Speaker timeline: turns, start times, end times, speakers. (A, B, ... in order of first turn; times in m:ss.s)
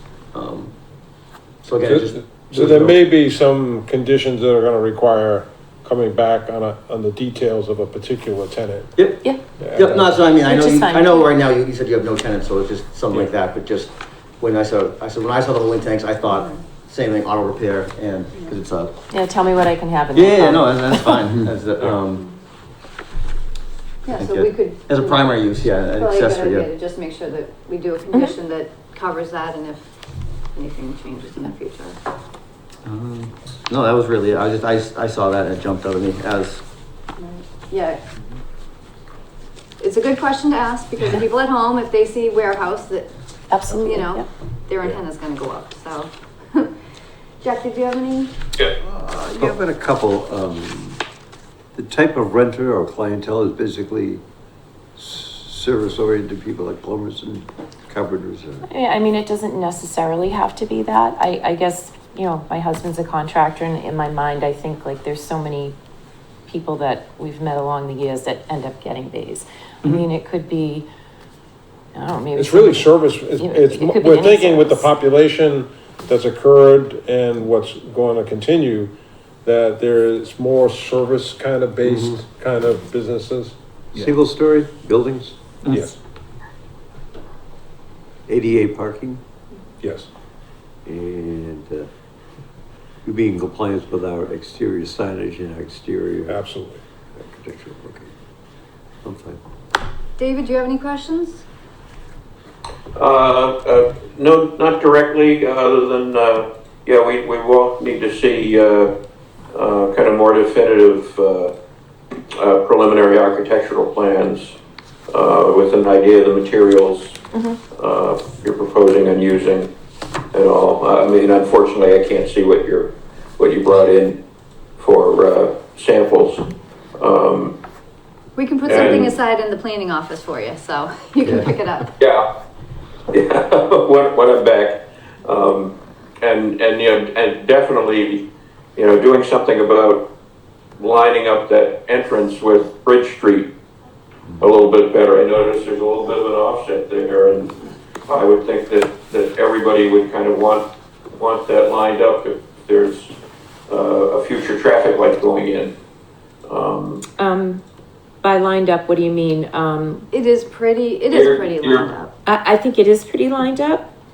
0:00.3-0:00.8 A
0:01.6-0:03.0 A
0:01.8-0:08.9 B
0:09.0-0:18.9 A
0:09.6-0:10.3 B
0:10.4-0:11.3 C
0:16.3-0:16.6 D
0:19.1-0:21.2 C
0:20.1-0:22.3 A
0:24.0-0:25.3 D
0:24.1-0:26.7 A
0:25.9-0:29.9 D
0:30.5-0:32.0 D
0:32.8-0:36.6 A
0:37.2-0:38.0 D
0:39.8-0:43.1 D
0:43.5-0:44.2 C
0:43.7-0:46.7 D
0:47.4-0:48.3 D
0:48.8-0:51.0 E
0:51.7-0:54.2 E
0:55.0-0:58.6 E
0:58.7-1:05.8 C
1:06.5-1:10.9 C
1:11.9-1:14.9 C
1:12.3-1:18.9 B
1:19.4-1:23.6 B
1:23.9-1:25.4 E
1:25.7-1:26.0 B
1:28.3-1:29.2 E
1:29.8-1:30.1 B
1:30.9-1:31.9 E
1:33.0-1:36.4 E
1:36.3-1:36.8 B
1:37.2-1:38.1 E
1:39.0-1:39.4 E
1:40.2-1:41.4 D
1:43.0-1:48.9 F
1:49.5-1:51.5 F
1:52.3-1:54.6 F
1:55.1-1:57.2 F
1:57.3-1:57.6 C
1:57.8-1:59.7 F
2:00.3-2:04.2 F
2:04.8-2:06.4 F
2:07.0-2:07.6 F
2:08.4-2:11.9 D
2:08.6-2:09.1 F
2:11.2-2:11.5 A
2:12.0-2:12.3 F
2:13.1-2:20.1 F
2:20.8-2:23.5 F
2:24.4-2:27.6 F
2:28.1-2:33.1 F
2:33.7-2:35.7 F
2:36.5-2:37.1 F
2:37.2-2:37.6 C
2:38.2-2:40.1 C
2:40.1-2:42.1 D
2:41.1-2:41.9 F
2:42.2-2:43.8 C